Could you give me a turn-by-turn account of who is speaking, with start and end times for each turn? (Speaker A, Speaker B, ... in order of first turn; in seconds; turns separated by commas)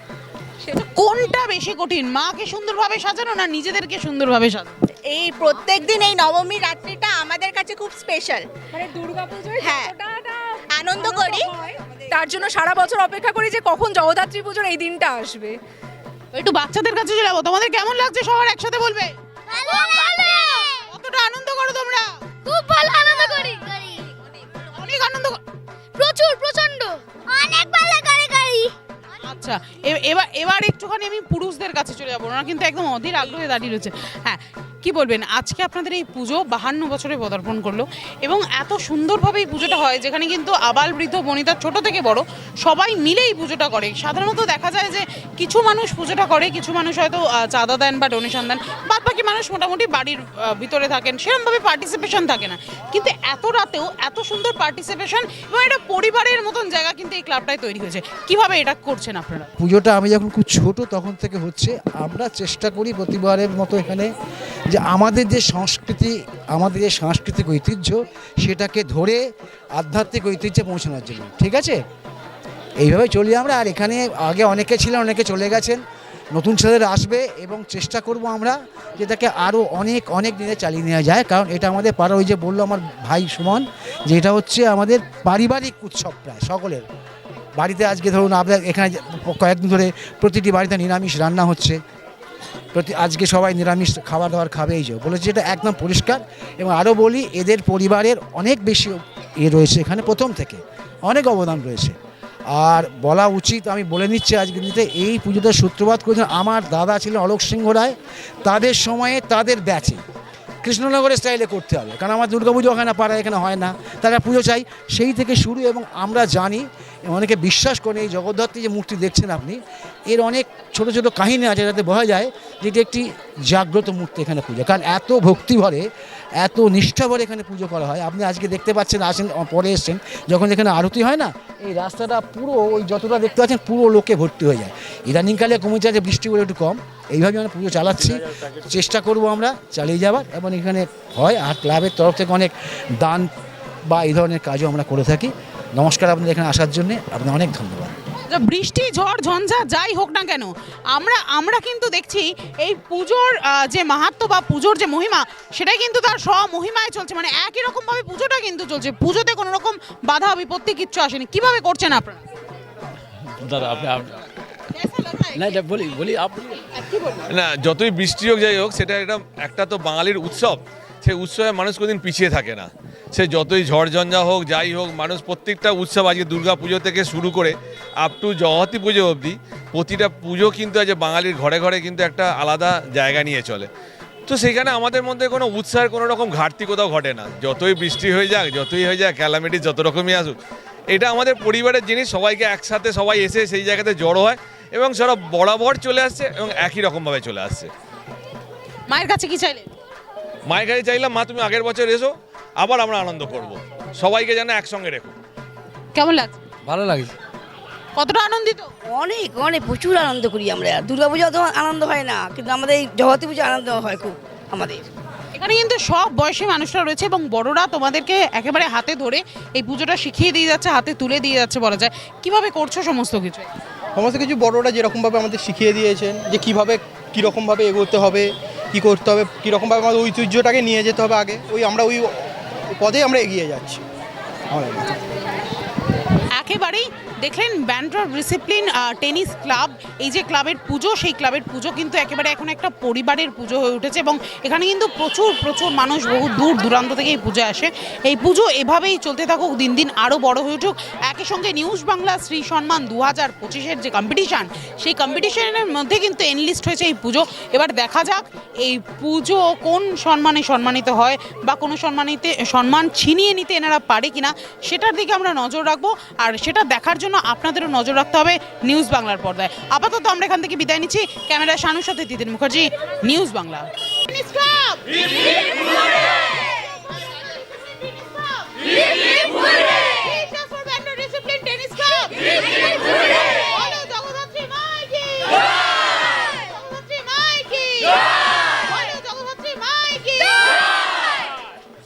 Speaker A: 0.7-4.8, Speaker B: 5.0-8.5, Speaker C: 8.7-15.6, Speaker B: 9.6-9.9, Speaker B: 10.8-11.5, Speaker A: 16.3-22.2, Speaker D: 19.5-20.8, Speaker D: 22.4-24.1, Speaker A: 23.1-23.4, Speaker A: 24.7-25.4, Speaker D: 26.0-28.7, Speaker A: 29.2-59.5, Speaker E: 59.6-64.1, Speaker E: 64.7-71.8, Speaker E: 72.8-86.9, Speaker E: 87.6-91.8, Speaker E: 92.7-102.0, Speaker E: 102.5-110.0, Speaker E: 110.6-143.3, Speaker E: 143.9-147.9, Speaker A: 148.3-162.2, Speaker F: 163.4-164.2, Speaker A: 164.8-165.3, Speaker F: 165.3-166.7, Speaker G: 167.3-183.7, Speaker G: 184.3-190.4, Speaker G: 190.9-197.7, Speaker A: 198.9-199.7, Speaker G: 200.5-205.2, Speaker A: 205.9-206.4, Speaker F: 206.7-207.1, Speaker A: 207.9-208.7, Speaker H: 208.9-214.8, Speaker A: 215.3-223.5, Speaker I: 224.0-232.2, Speaker I: 232.7-233.8, Speaker I: 234.5-234.9, Speaker A: 236.3-291.0